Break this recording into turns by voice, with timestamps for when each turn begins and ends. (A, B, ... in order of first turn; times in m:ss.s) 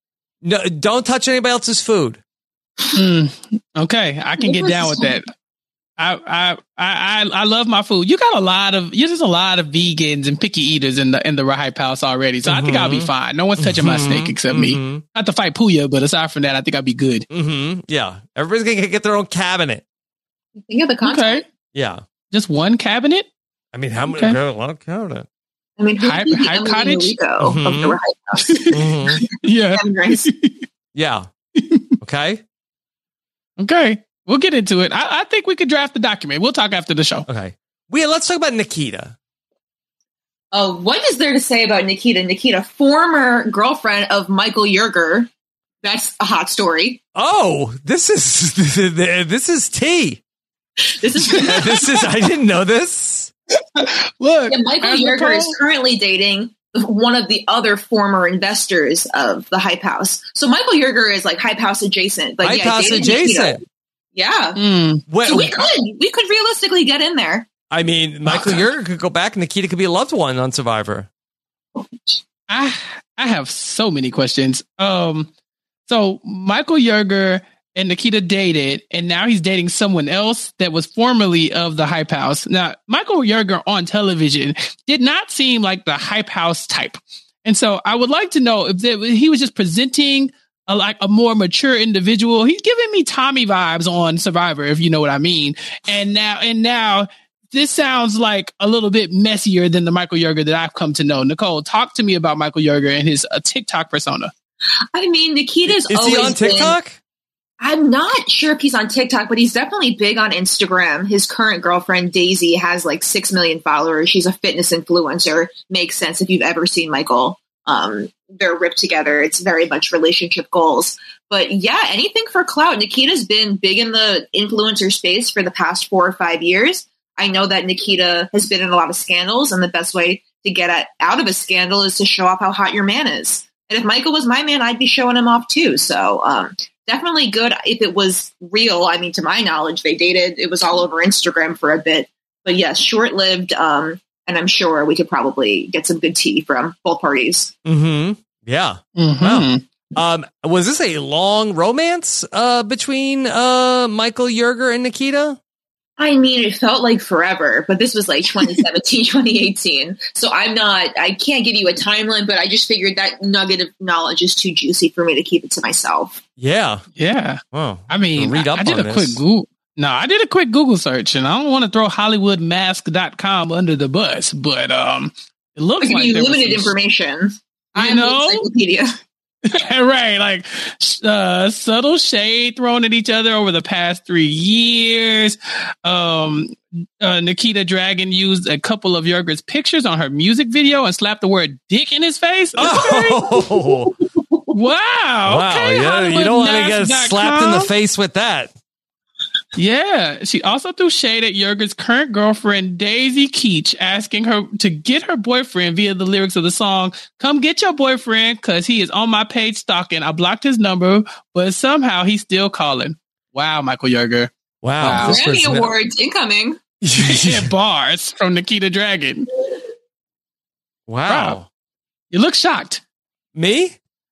0:00.4-0:02.2 A
0:02.9-0:05.2 B
0:04.4-0:05.2 C
0:06.0-0:17.3 B
0:12.4-0:15.0 A
0:17.3-0:19.8 A
0:20.6-0:21.4 C
0:21.0-0:21.4 B
0:21.7-0:22.0 A
0:22.3-0:23.3 B
0:23.7-0:25.2 A
0:24.1-0:24.4 B
0:25.8-0:28.6 C
0:26.0-0:27.2 B
0:27.4-0:28.0 A
0:28.4-0:30.6 B
0:28.7-0:29.2 A
0:29.7-0:30.3 C
0:30.9-0:31.3 A
0:31.6-0:31.9 B
0:32.0-0:32.4 A
0:33.6-0:37.3 B
0:37.3-0:39.2 A
0:40.5-0:45.3 C
0:45.8-0:47.0 C
0:47.1-0:50.2 A
0:50.8-0:52.0 C
0:51.3-0:53.3 A
0:53.7-0:55.6 B
0:54.5-1:03.6 C
1:02.4-1:03.6 A
1:04.1-1:04.6 C
1:04.6-1:05.0 B
1:05.1-1:05.7 A
1:05.2-1:07.5 C
1:07.7-1:11.1 A
1:11.8-1:12.2 C
1:12.5-1:15.3 B
1:15.9-1:44.3 B
1:44.9-1:46.8 C
1:45.7-1:47.0 A
1:47.6-2:27.5 C
2:27.6-2:35.4 A
2:29.0-2:29.6 B
2:36.0-2:46.2 C
2:46.4-2:46.8 A
2:47.0-2:56.7 B
2:47.5-2:49.2 A
2:55.8-2:58.9 C
2:57.8-2:58.5 B
2:59.4-3:13.2 B
3:12.6-3:13.9 A
3:14.2-3:14.6 C
3:14.5-3:17.7 B
3:15.3-3:18.5 A
3:19.5-3:35.2 B
3:34.6-3:35.7 A
3:35.0-3:36.6 C
3:36.8-3:37.5 A
3:37.0-3:39.3 B
3:40.9-3:41.5 A
3:41.1-3:41.4 B
3:42.1-3:42.8 B
3:43.3-3:43.8 A